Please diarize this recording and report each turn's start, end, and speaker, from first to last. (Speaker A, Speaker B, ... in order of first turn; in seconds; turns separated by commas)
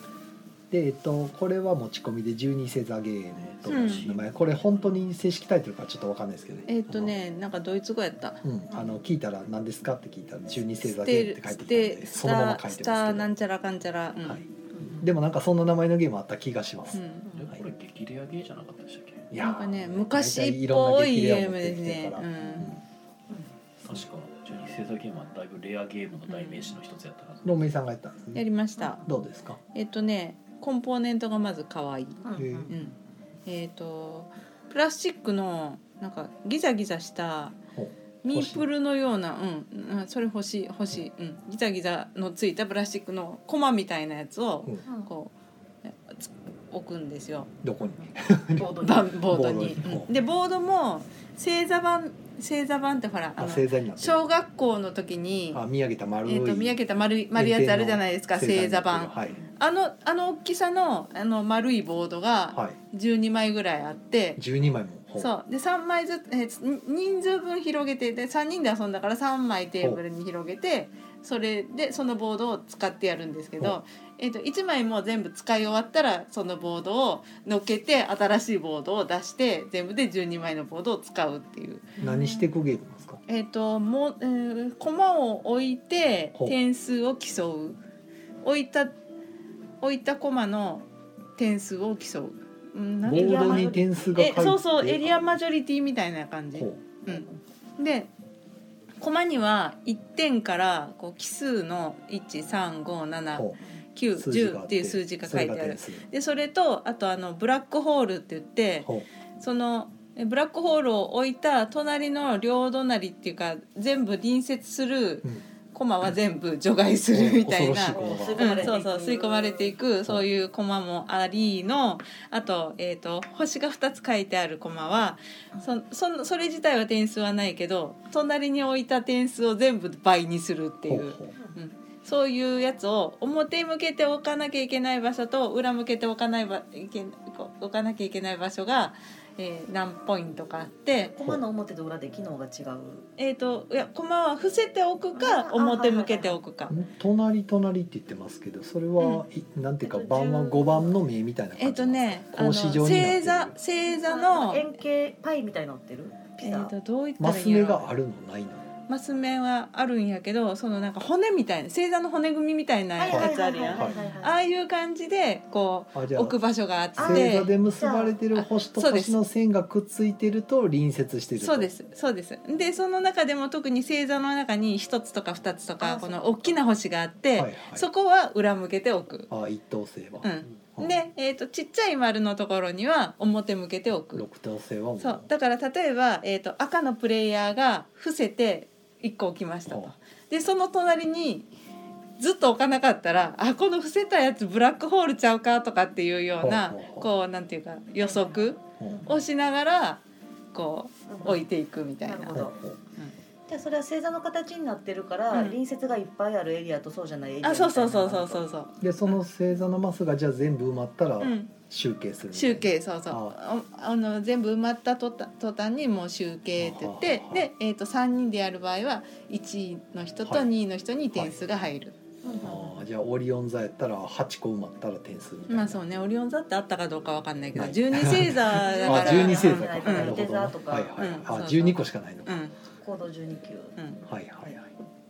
Speaker A: 0.7-7.2, Speaker B: 3.4-5.0, Speaker C: 3.7-4.0, Speaker C: 6.7-8.4, Speaker A: 8.4-13.4, Speaker C: 10.8-14.4, Speaker A: 15.0-17.0, Speaker C: 16.9-17.3, Speaker B: 17.3-19.3, Speaker A: 19.3-22.8, Speaker C: 19.4-22.8, Speaker B: 23.8-27.6, Speaker C: 26.3-26.7, Speaker A: 27.4-28.4, Speaker C: 28.4-29.0, Speaker D: 28.8-29.0, Speaker A: 29.0-29.6, Speaker C: 29.7-32.9, Speaker D: 32.2-32.8, Speaker A: 32.4-32.7, Speaker C: 33.5-37.6, Speaker A: 37.7-38.7, Speaker C: 38.2-45.3, Speaker C: 45.9-47.5, Speaker A: 47.6-50.1, Speaker D: 48.5-49.0, Speaker C: 48.8-55.6, Speaker A: 53.4-54.3, Speaker A: 55.5-56.8, Speaker C: 56.3-64.4, Speaker A: 57.3-59.4, Speaker A: 62.5-62.8, Speaker A: 64.4-65.3, Speaker C: 65.2-82.4, Speaker A: 82.0-83.2, Speaker C: 83.3-87.8, Speaker C: 88.4-88.9, Speaker C: 89.8-90.8, Speaker C: 91.4-97.3, Speaker D: 93.0-94.2, Speaker A: 93.0-95.4, Speaker A: 96.5-96.8, Speaker D: 97.1-97.4, Speaker C: 97.8-98.1, Speaker C: 99.0-141.1, Speaker A: 103.3-103.6, Speaker A: 104.1-106.0, Speaker A: 117.1-118.8, Speaker D: 117.9-119.7, Speaker A: 130.9-131.3, Speaker D: 141.1-143.1, Speaker C: 143.2-146.8, Speaker D: 145.2-146.4, Speaker A: 146.7-153.6, Speaker D: 149.8-150.9, Speaker C: 151.6-154.7, Speaker D: 153.9-156.7, Speaker C: 156.4-157.9, Speaker A: 157.2-158.7, Speaker C: 158.9-167.5, Speaker D: 163.0-164.4, Speaker A: 163.1-164.0, Speaker A: 165.9-166.4, Speaker D: 167.0-168.2, Speaker A: 167.0-171.7, Speaker C: 168.3-169.2, Speaker C: 171.4-179.3, Speaker D: 175.8-176.6, Speaker A: 177.3-177.9, Speaker A: 179.3-181.0, Speaker C: 180.2-184.3, Speaker A: 184.1-185.3, Speaker C: 185.0-191.5, Speaker A: 189.7-189.9, Speaker C: 192.2-200.0, Speaker A: 196.4-197.1, Speaker D: 198.0-199.2, Speaker A: 198.8-199.1, Speaker C: 200.5-202.4, Speaker D: 201.1-201.4, Speaker D: 202.0-202.6, Speaker A: 202.3-202.8, Speaker D: 203.5-208.4, Speaker C: 205.3-205.6, Speaker C: 207.4-208.7, Speaker A: 208.8-213.4, Speaker C: 211.2-211.5, Speaker C: 212.3-221.9, Speaker A: 216.6-217.5, Speaker A: 221.1-221.6, Speaker D: 222.2-222.8, Speaker A: 222.4-225.8, Speaker C: 225.5-230.2, Speaker A: 227.6-232.4, Speaker D: 228.5-231.1, Speaker C: 231.0-232.5, Speaker D: 232.8-233.8, Speaker C: 233.8-234.0, Speaker A: 234.1-234.7